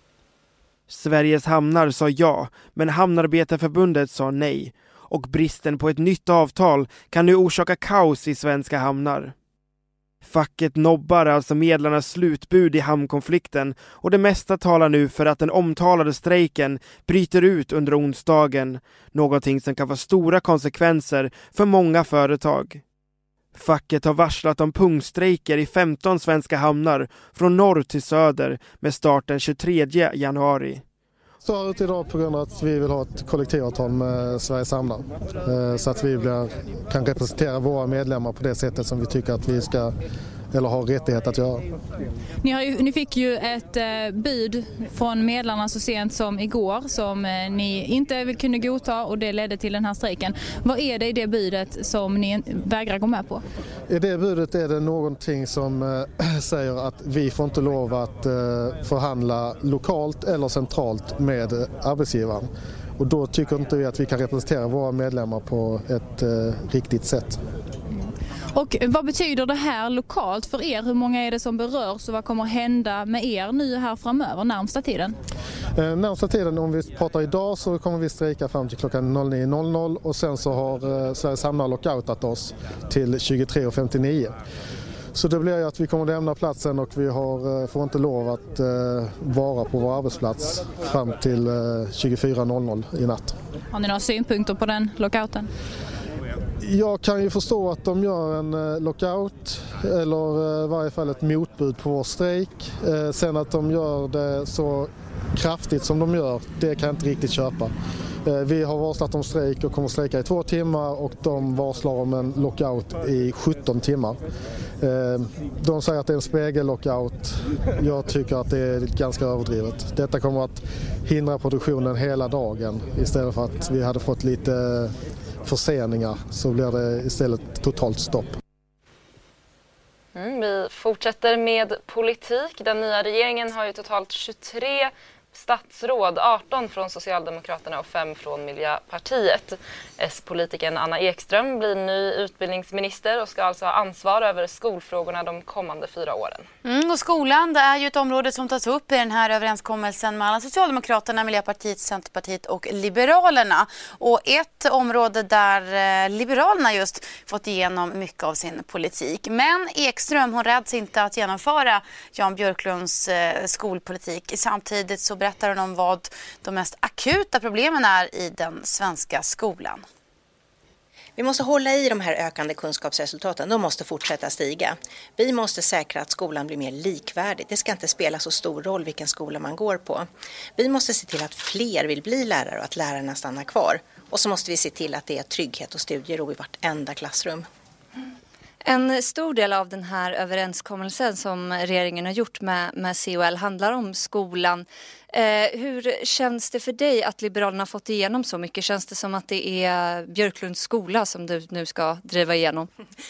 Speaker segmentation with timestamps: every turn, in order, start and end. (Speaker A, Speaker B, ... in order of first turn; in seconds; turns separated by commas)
Speaker A: 0.9-9.3, Speaker A: 10.2-22.8, Speaker A: 23.5-30.8, Speaker B: 31.4-39.9, Speaker B: 40.5-41.6, Speaker C: 42.4-53.4, Speaker B: 53.9-67.4, Speaker C: 68.0-75.2, Speaker B: 75.8-84.3, Speaker B: 85.1-93.3, Speaker C: 93.7-95.5, Speaker B: 96.6-107.7, Speaker B: 108.2-114.2, Speaker B: 114.8-124.9, Speaker B: 125.4-128.3, Speaker D: 130.1-146.5, Speaker E: 146.6-169.8, Speaker F: 171.2-187.4, Speaker G: 188.6-202.7